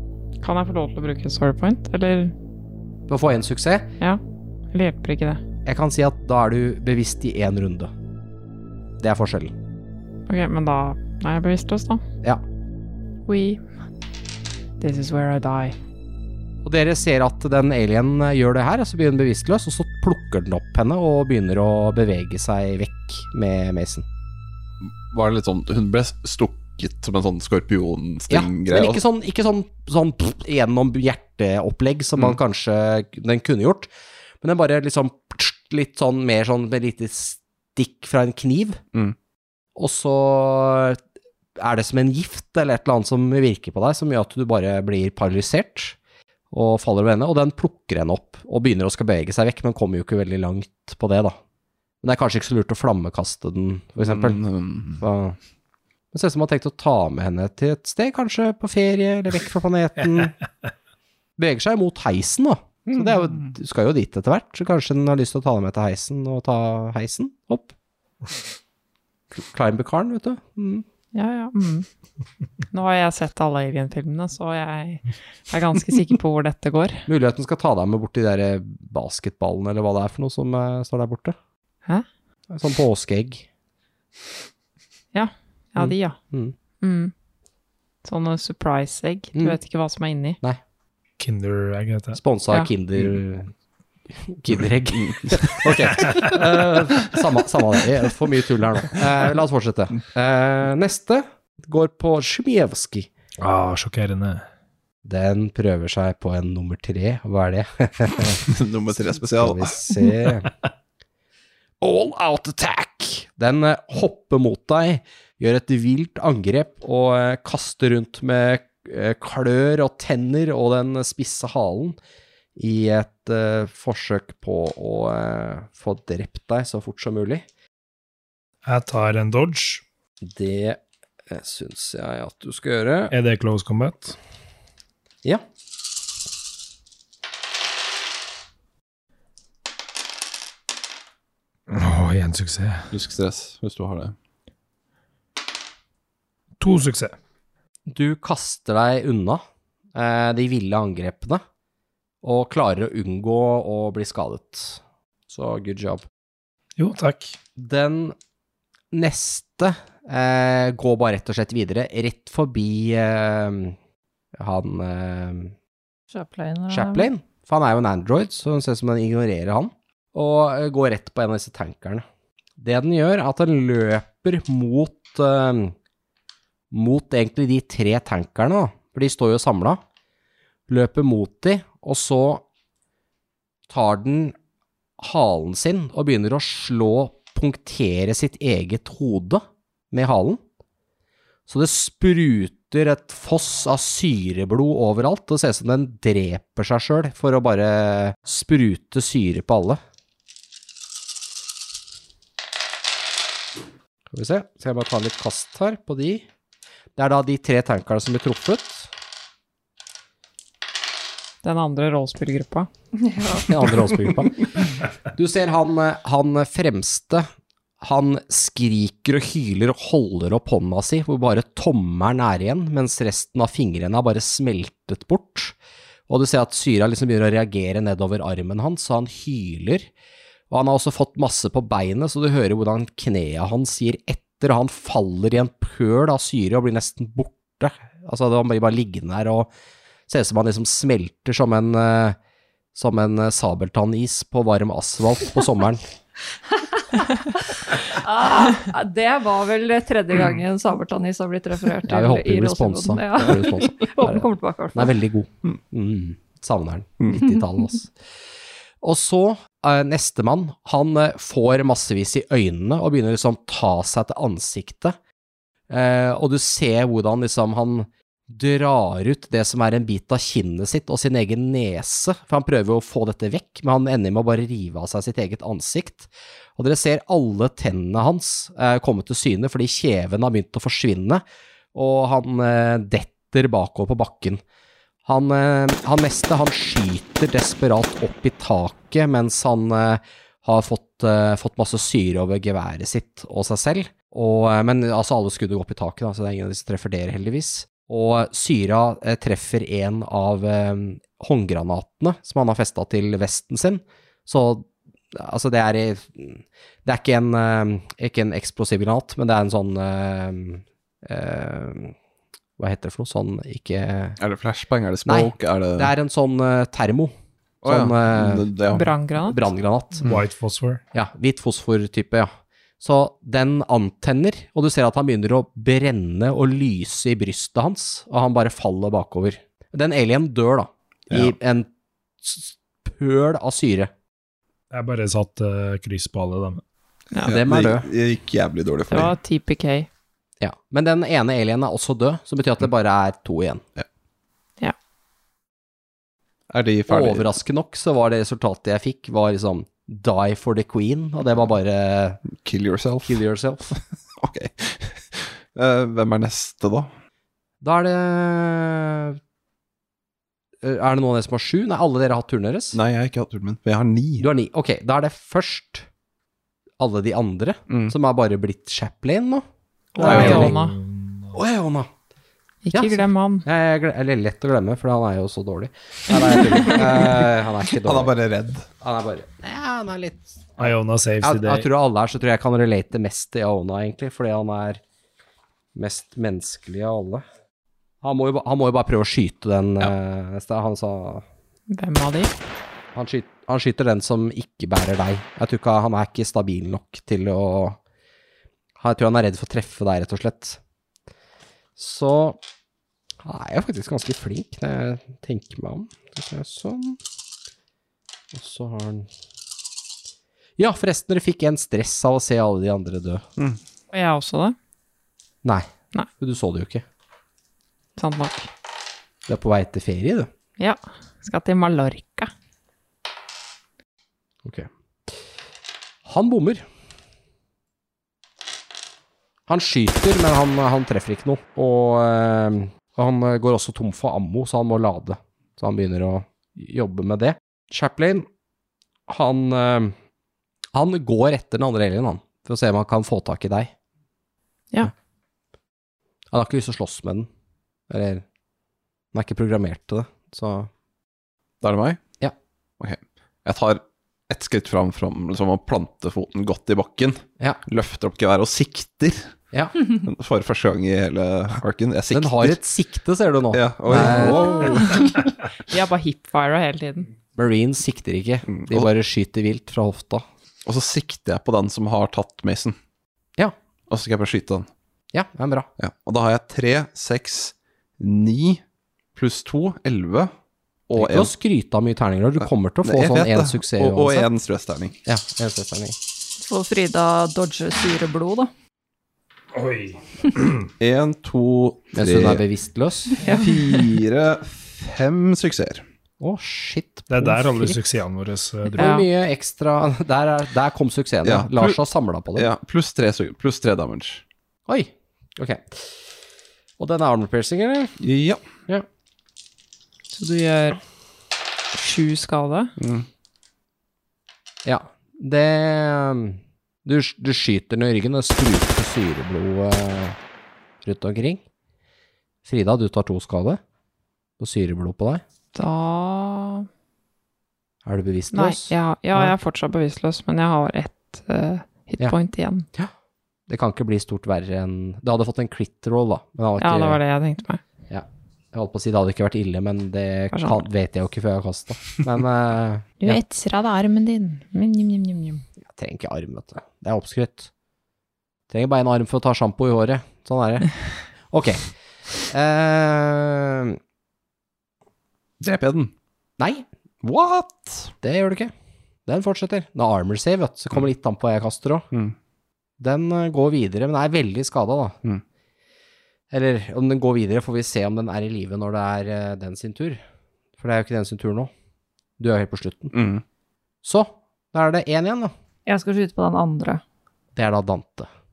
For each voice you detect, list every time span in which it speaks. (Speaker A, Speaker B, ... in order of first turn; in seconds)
Speaker A: 0.4-2.3, 4.7-5.4, 10.3-12.0, 13.3-13.6, 14.8-15.8, 71.1-71.9, 72.7-77.0, 85.1-86.2, 86.8-87.1, 88.0-90.4, 211.4-212.7, 318.7-319.4, 338.9-339.9, 369.9-370.8, 372.6-373.4, 391.7-392.3, 413.9-414.6, 418.0-418.5, 420.6-422.3, 464.2-467.1, 498.8-499.1, 510.1-510.8, 511.7-512.7, 525.5-526.7, 528.3-532.7, 536.6-537.6, 540.3-540.6, 543.0-545.4
Speaker B: 3.1-3.9, 5.7-7.9, 9.0-9.5, 16.6-24.1, 28.3-33.9, 34.4-38.8, 39.8-41.0, 41.6-46.0, 46.5-51.4, 52.0-54.4, 55.0-55.4, 56.1-60.4, 61.4-67.7, 69.3-70.8, 77.1-81.3, 82.5-83.4, 85.8-86.5, 92.1-93.5, 94.1-103.1, 105.0-108.4, 109.3-110.5, 111.8-122.0, 122.5-127.4, 130.2-133.1, 147.9-149.4, 149.9-151.4, 152.2-156.0, 157.6-158.1, 158.9-163.8, 164.3-165.5, 166.7-172.0, 172.6-175.8, 176.7-179.8, 180.7-182.4, 183.7-184.3, 185.0-190.4, 191.5-199.8, 204.1-206.2, 206.9-208.9, 213.5-217.3, 217.8-225.5, 226.1-229.9, 230.5-239.5, 240.1-242.2, 242.7-245.8, 251.8-257.9, 258.8-265.0, 265.7-281.2, 281.7-284.4, 285.0-311.9, 312.6-314.2, 315.0-318.5, 319.2-320.1, 320.9-331.7, 332.2-333.9, 337.2-337.9, 340.4-343.6, 346.9-352.2, 353.0-353.8, 357.6-359.2, 360.6-362.8, 364.2-365.9, 366.8-369.4, 370.0-370.5, 371.3-371.9, 372.7-378.1, 378.8-384.8, 385.7-387.2, 388.0-391.2, 392.9-397.8, 398.8-400.6, 401.8-402.4, 403.2-407.0, 408.3-409.1, 410.6-413.2, 415.4-416.8, 419.3-420.3, 424.4-425.2, 426.0-426.6, 429.5-438.3, 439.1-439.9, 440.7-443.7, 446.3-447.3, 447.9-448.2, 449.1-450.7, 462.1-464.9, 467.4-470.2, 475.1-475.7, 480.9-484.3, 485.1-485.9, 491.9-493.2, 496.2-497.8, 498.7-502.5, 504.7-506.0, 506.8-507.9, 514.6-520.2, 520.8-521.4, 522.4-523.6, 524.4-525.2, 527.8-529.3, 533.5-537.0, 537.9-543.2, 545.6-547.5, 548.5-550.7, 551.3-551.7, 552.2-553.8, 556.4-556.6, 558.0-558.5, 559.0-561.9, 562.8-565.0, 566.3-570.0, 570.6-571.5, 572.2-572.9, 573.8-575.3, 577.4-578.1
Speaker C: 24.8-29.0, 54.0-55.0, 95.0-95.7, 108.4-109.8, 142.9-144.1, 314.2-315.9, 317.6-318.9, 331.1-331.3, 337.2-339.1, 346.5-347.3, 352.3-353.2, 354.1-356.9, 362.7-364.3, 367.7-367.9, 370.0-370.5, 376.1-378.7, 451.6-452.0, 452.8-462.6, 463.5-465.3, 468.5-468.9, 470.6-472.8, 473.9-474.7, 475.8-478.6, 479.1-480.3, 480.9-481.3, 482.8-485.0, 490.8-492.4, 493.2-495.8, 501.2-501.8, 502.3-504.2, 508.0-508.4, 512.8-513.1, 555.4-555.9, 557.0-557.9, 572.9-573.2
Speaker D: 91.2-92.2, 103.4-104.4, 128.7-129.8, 133.1-134.2, 141.7-142.9, 146.6-147.2, 156.8-157.4, 320.0-320.8, 334.7-336.6, 370.0-371.4, 380.6-381.7, 489.5-490.7, 497.1-498.9
Speaker E: 166.1-167.1, 213.0-213.7, 246.5-254.9, 486.4-488.5, 493.1-494.0, 575.6-576.8